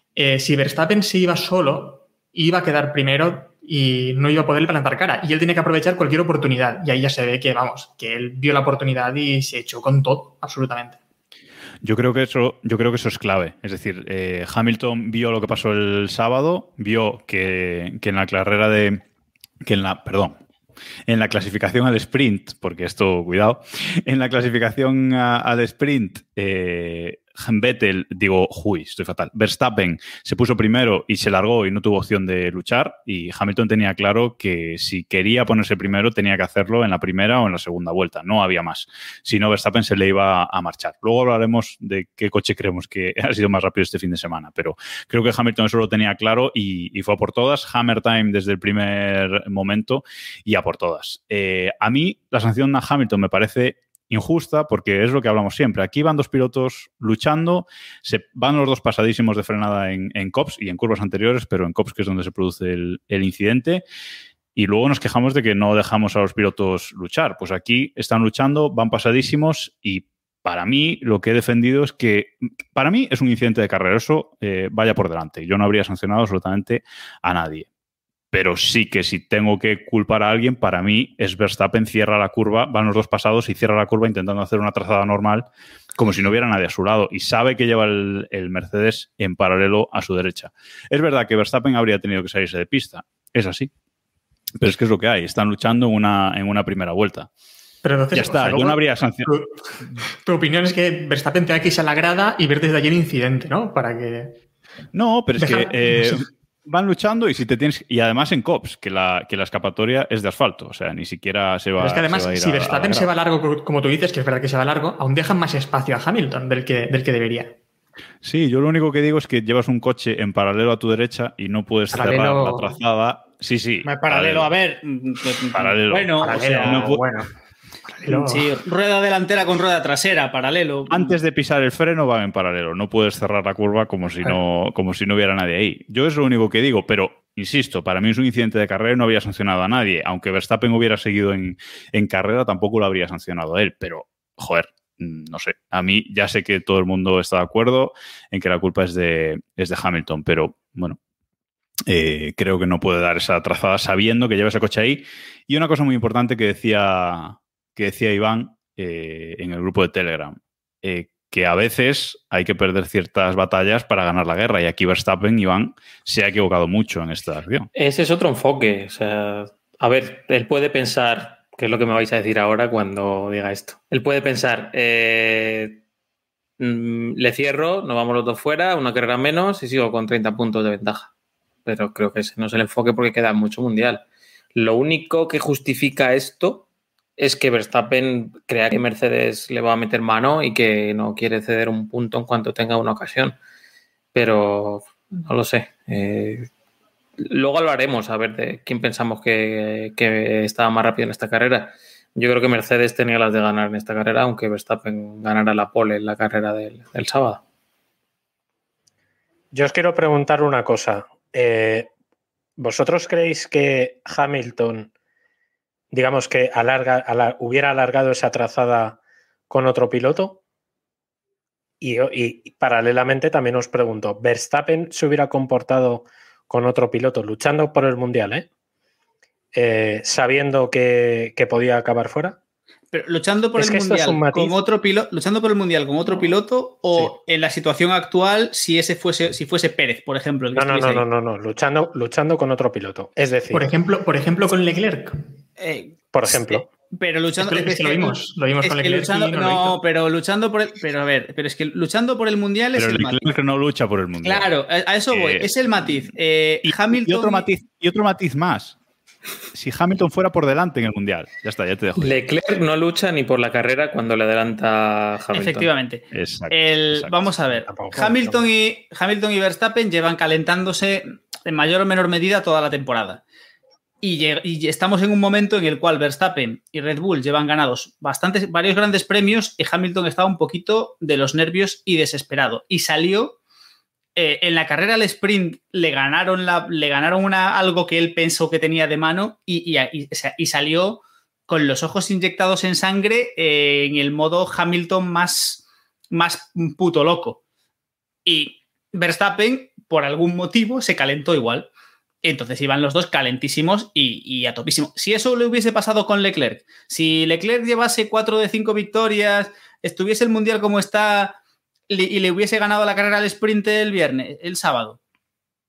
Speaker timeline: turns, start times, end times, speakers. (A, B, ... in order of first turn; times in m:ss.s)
0:00.2-0:11.0 A
0:11.8-0:19.0 B
0:19.6-0:20.4 B
0:21.1-1:03.8 B
1:04.6-1:17.7 B
1:18.3-1:33.7 B
1:34.6-1:37.3 B
1:37.8-1:44.4 A
1:38.1-1:39.3 B
1:44.9-1:53.1 B
1:45.4-1:46.2 A
1:51.8-1:57.5 A
1:58.2-2:04.5 B
2:01.9-2:02.8 A
2:03.8-2:07.0 C
2:05.5-2:07.0 B
2:06.2-2:07.3 A
2:07.8-2:08.5 A
2:08.1-2:11.1 C
2:10.9-2:31.0 B
2:31.9-2:47.7 B
2:47.7-2:55.8 D
2:56.6-3:01.1 D
3:01.6-3:06.7 D
3:07.2-3:13.4 D
3:14.1-3:16.5 D
3:17.2-3:27.4 D
3:29.5-3:31.9 E
3:32.6-3:34.9 E
3:35.9-3:40.4 E
3:41.8-3:48.5 E
3:49.5-3:52.4 E
3:52.9-4:01.0 C
3:53.6-3:54.6 E
4:00.5-4:03.7 E
4:03.5-4:05.2 A
4:05.6-4:13.2 C
4:06.1-4:06.7 E
4:07.4-4:09.8 A
4:12.7-4:14.5 B
4:14.2-4:17.4 C
4:15.1-4:15.5 B
4:16.6-4:18.8 B
4:19.5-4:22.2 B
4:22.0-4:25.7 D
4:25.3-4:33.2 C
4:26.1-4:27.1 B
4:27.6-4:28.5 E
4:34.0-4:43.4 C
4:44.2-4:57.4 C
4:58.2-5:01.7 C
5:02.2-5:11.4 C
5:11.9-5:15.0 C